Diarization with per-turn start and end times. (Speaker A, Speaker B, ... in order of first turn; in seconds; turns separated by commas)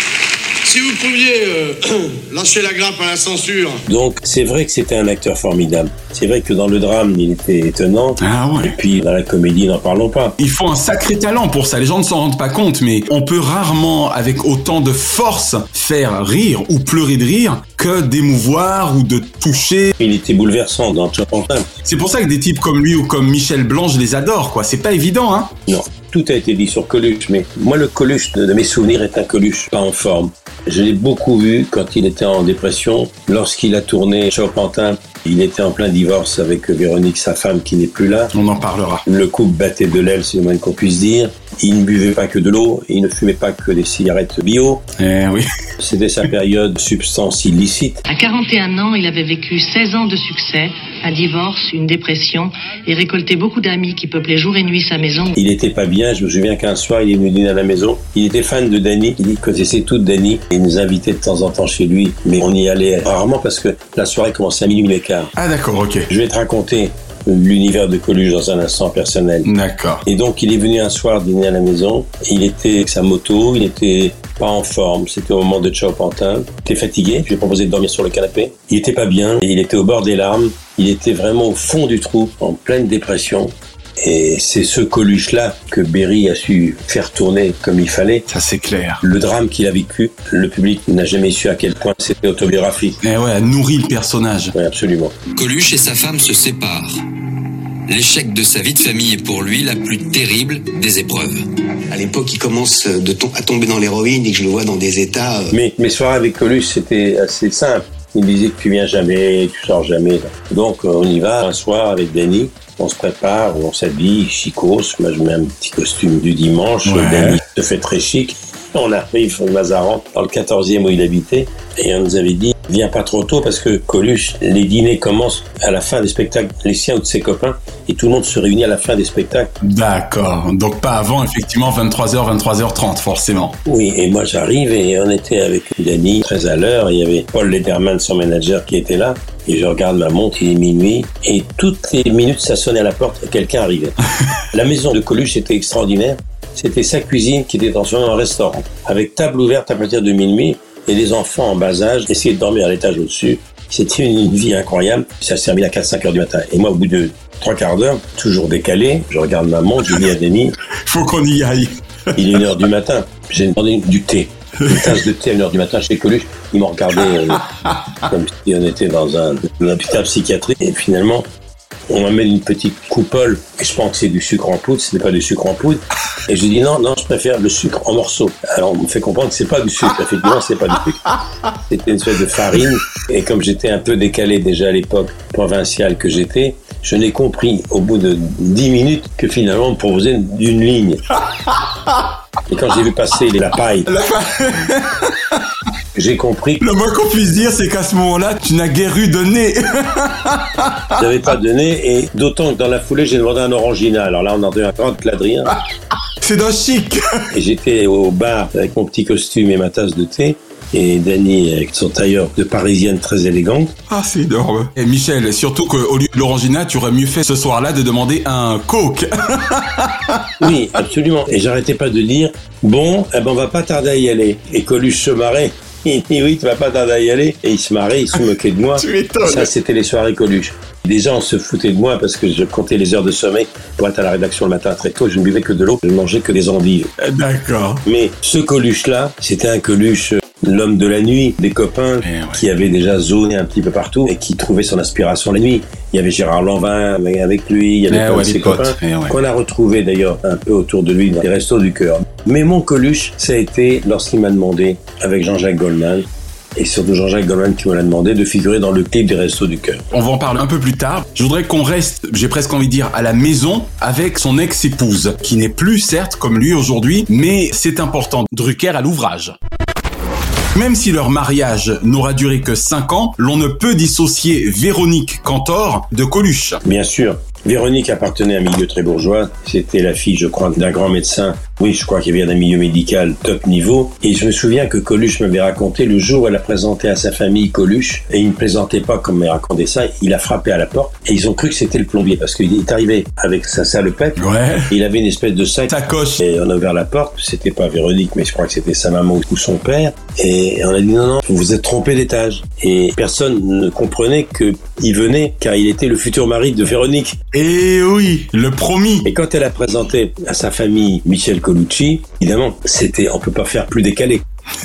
Speaker A: 0.6-3.8, Speaker B: 3.9-10.4, Speaker C: 8.2-8.8, Speaker C: 10.4-19.9, Speaker B: 20.0-21.7, Speaker C: 21.9-25.5, Speaker B: 25.7-38.3, Speaker C: 38.3-39.0, Speaker B: 39.1-44.8, Speaker C: 45.0-45.4, Speaker B: 45.8-48.0, Speaker D: 48.1-55.4, Speaker B: 55.4-65.3, Speaker C: 65.4-66.1, Speaker B: 66.1-69.5, Speaker C: 69.5-70.0, Speaker B: 70.1-88.2, Speaker C: 88.3-89.0, Speaker B: 89.0-93.0, Speaker C: 93.0-94.5, Speaker B: 94.5-95.2, Speaker E: 95.3-97.0, Speaker E: 97.9-101.5, Speaker F: 101.9-105.5, Speaker B: 105.5-129.5, Speaker C: 116.9-117.4, Speaker C: 129.6-133.6, Speaker B: 133.7-143.9, Speaker B: 144.5-160.6, Speaker C: 160.9-162.4, Speaker B: 162.2-167.4, Speaker C: 164.6-165.0, Speaker C: 167.3-167.8, Speaker B: 168.1-171.3, Speaker B: 171.9-181.0, Speaker B: 181.7-191.0, Speaker B: 192.5-193.9, Speaker C: 193.9-195.4, Speaker B: 195.9-196.6, Speaker C: 196.6-200.9, Speaker B: 201.0-205.5, Speaker C: 206.2-207.2, Speaker B: 207.3-213.7, Speaker C: 213.9-220.5, Speaker B: 220.4-236.9, Speaker C: 228.8-229.5, Speaker C: 237.0-237.8, Speaker B: 237.8-259.8, Speaker C: 242.0-242.4, Speaker C: 247.9-249.2, Speaker C: 259.9-269.4, Speaker C: 270.5-276.6, Speaker B: 276.6-294.2, Speaker C: 294.2-294.7, Speaker B: 294.7-307.2, Speaker C: 295.7-296.2, Speaker C: 307.3-309.1, Speaker B: 309.1-314.2